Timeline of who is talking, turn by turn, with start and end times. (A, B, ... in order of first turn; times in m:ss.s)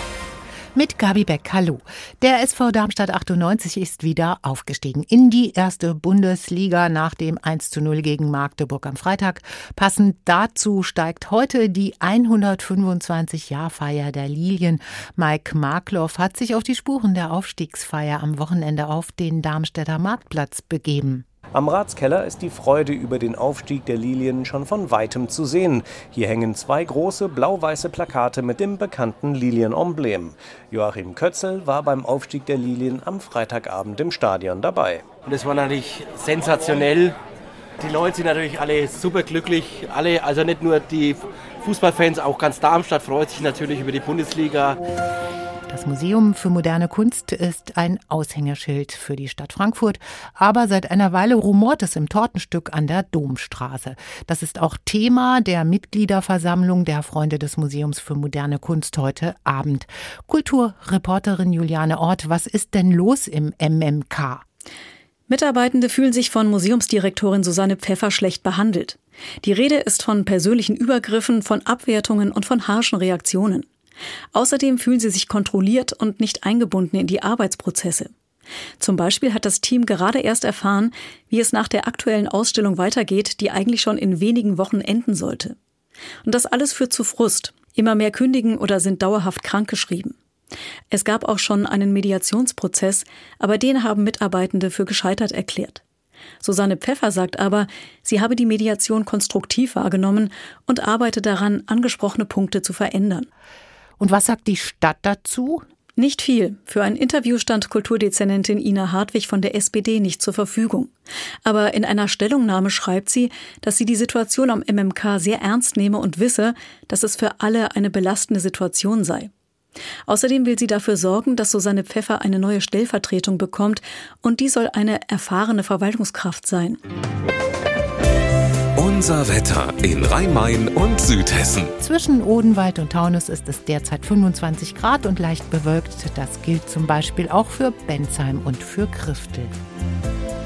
0:00.7-0:21.2 A
0:21.5-0:35.1 B
0:35.2-0:37.2 C
0:37.8-0:44.8 C
0:45.7-1:04.4 A
1:05.3-1:13.7 D
1:14.3-1:18.1 D
1:18.8-1:25.6 D
1:26.2-1:30.2 D
1:30.9-1:35.8 D
1:36.4-1:43.3 D
1:44.0-1:45.6 A
1:46.0-1:50.9 D
1:51.4-1:59.3 D
2:00.1-2:06.8 D
2:08.8-2:11.7 E
2:11.8-2:19.5 A